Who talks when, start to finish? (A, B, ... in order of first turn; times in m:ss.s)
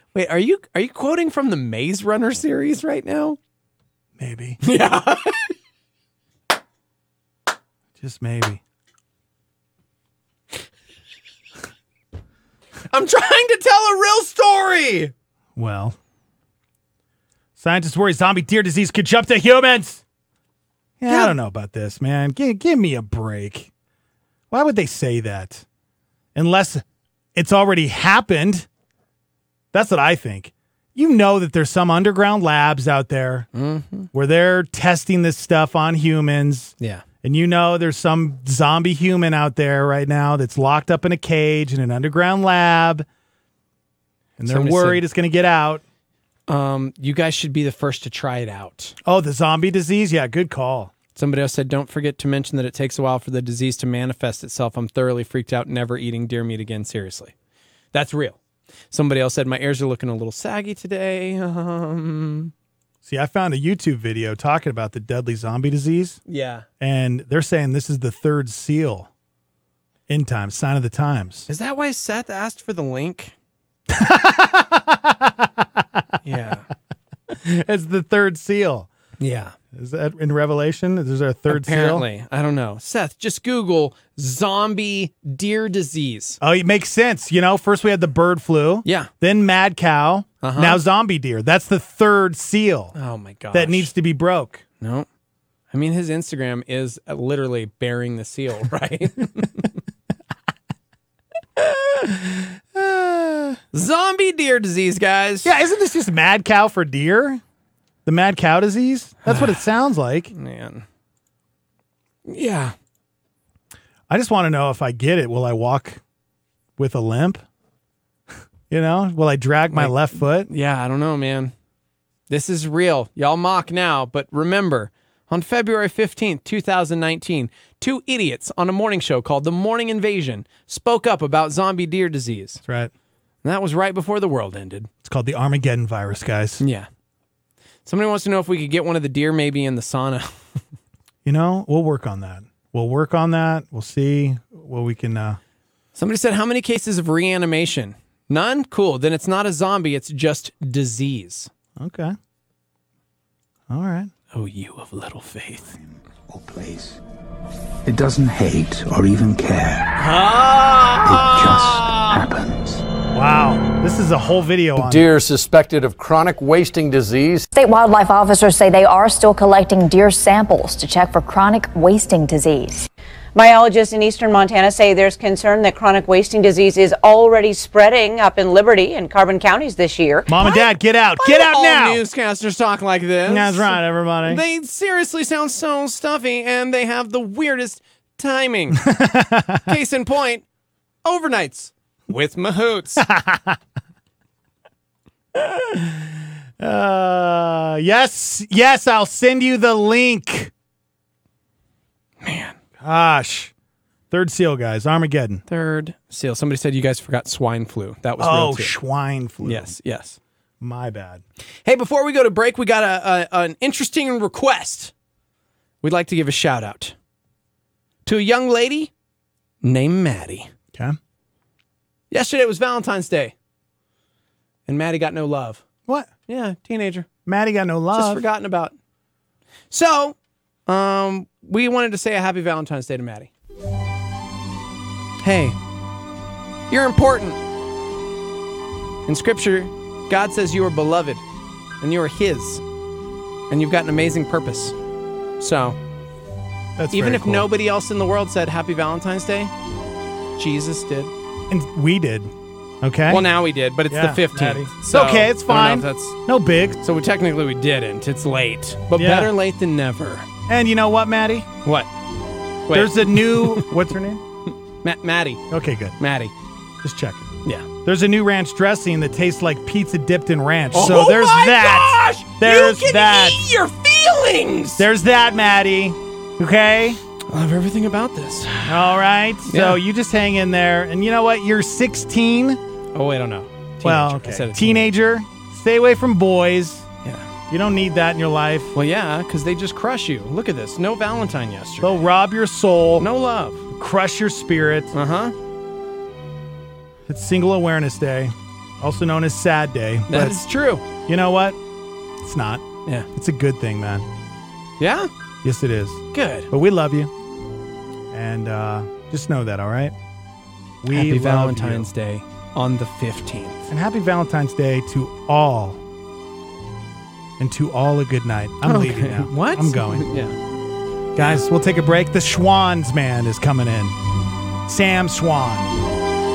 0:00.1-0:03.4 A
0:04.2-0:04.6 B
0:04.6-0:05.5 A
0:08.0-0:08.6 B
0:12.9-0:15.1 A
0:15.6-0:16.0 B
0:17.6-0:20.0 B
0:21.0-0:23.7 B
0:21.1-0:21.4 A
0:24.5-0:25.6 B
0:26.4-0:26.8 B
0:27.4-0:28.7 B
0:29.7-0:33.5 B
0:33.5-0:34.1 A
0:34.1-0:43.1 B
0:44.4-0:45.8 B
0:44.4-0:45.0 A
0:46.5-0:49.0 A
0:49.0-0:50.9 B
0:51.2-0:57.3 A
0:57.9-0:58.4 A
0:58.9-1:02.5 A
1:03.0-1:06.2 B
1:06.3-1:06.7 A
1:06.8-1:09.1 B
1:10.1-1:11.5 B
1:11.5-1:13.3 A
1:13.9-1:16.0 B
1:16.2-1:16.7 A
1:17.3-1:18.9 B
1:19.2-1:19.6 A
1:19.7-1:22.0 B
1:21.5-1:26.4 A
1:26.4-1:32.9 B
1:28.8-1:29.1 A
1:30.4-1:30.8 A
1:33.0-1:33.9 A
1:33.5-1:34.6 B
1:34.8-1:35.1 A
1:35.7-1:39.7 A
1:42.7-1:43.6 B
1:43.7-1:45.5 A
1:45.4-1:47.4 B
1:48.1-1:50.3 B
1:50.3-1:50.8 A
1:52.3-1:52.7 A
1:54.1-1:56.0 B
1:56.8-1:57.4 B
1:58.7-2:00.5 B
1:59.7-2:01.5 A
2:02.3-2:12.6 A
2:12.7-2:12.9 B
2:13.4-2:14.9 A
2:15.0-2:16.6 B
2:16.6-2:16.9 A
2:17.9-2:20.3 A
2:21.2-2:25.4 B
2:26.0-2:31.5 A
2:31.8-2:32.2 B
2:33.7-2:34.1 B
2:34.3-2:35.8 A
2:36.3-2:37.0 C
2:37.8-2:39.9 C
2:40.0-2:42.2 A
2:41.0-2:42.8 C
2:43.1-2:45.0 B
2:44.8-2:47.5 D
2:47.5-2:52.9 E
2:53.4-3:00.3 F
3:00.3-3:02.0 B
3:00.4-3:00.7 A
3:01.2-3:08.9 A
3:03.3-3:04.4 B
3:08.7-3:09.7 B
3:09.7-3:10.4 A
3:11.0-3:13.0 A
3:13.0-3:13.6 B
3:16.6-3:20.5 B
3:22.2-3:22.6 A
3:22.8-3:23.5 B
3:24.1-3:25.4 B
3:25.5-3:28.8 A
3:28.2-3:29.7 B
3:29.4-3:30.2 A
3:30.6-3:31.2 B
3:31.7-3:34.9 A
3:35.8-3:36.9 A
3:38.1-3:38.9 A
3:39.6-3:40.5 A
3:42.1-3:43.3 A
3:44.7-3:45.6 A
3:46.3-3:47.1 A
3:47.3-3:48.2 B
3:47.9-3:48.7 A
3:49.7-3:50.2 A
3:50.7-3:53.3 A
3:55.2-3:55.6 A
3:56.7-3:57.4 A
3:59.1-4:01.2 A
4:01.8-4:02.6 A
4:03.5-4:04.8 A
4:05.4-4:05.8 A
4:06.8-4:07.5 B
4:06.9-4:09.5 A
4:10.4-4:11.1 A
4:11.5-4:13.3 B
4:13.1-4:16.2 A
4:13.9-4:16.8 B
4:16.8-4:20.3 A
4:19.0-4:19.3 B
4:20.5-4:21.5 B
4:22.7-4:23.7 A
4:22.7-4:24.2 B
4:24.8-4:25.4 A
4:25.5-4:26.0 B
4:26.0-4:26.3 A
4:26.8-4:27.3 B
4:27.8-4:33.4 B
4:30.7-4:34.9 A
4:34.8-4:37.0 B
4:37.3-4:39.8 A
4:38.7-4:42.6 B
4:42.9-4:44.9 A
4:43.8-4:46.9 B
4:47.5-4:48.8 B
4:48.8-4:52.0 A
4:51.8-4:53.1 B
4:53.0-4:53.6 A
4:53.7-4:54.9 B
4:54.9-4:55.4 A
4:57.1-5:00.4 B
5:00.1-5:00.8 A
5:01.1-5:01.6 B
5:02.2-5:04.1 B
5:04.8-5:05.1 A
5:05.4-5:07.1 B
5:06.1-5:06.5 A
5:08.1-5:09.9 B
5:10.8-5:11.9 B
5:10.9-5:13.7 A
5:13.7-5:15.8 B
5:17.4-5:20.1 B
5:18.6-5:20.4 A
5:21.2-5:24.0 B
5:24.7-5:25.7 B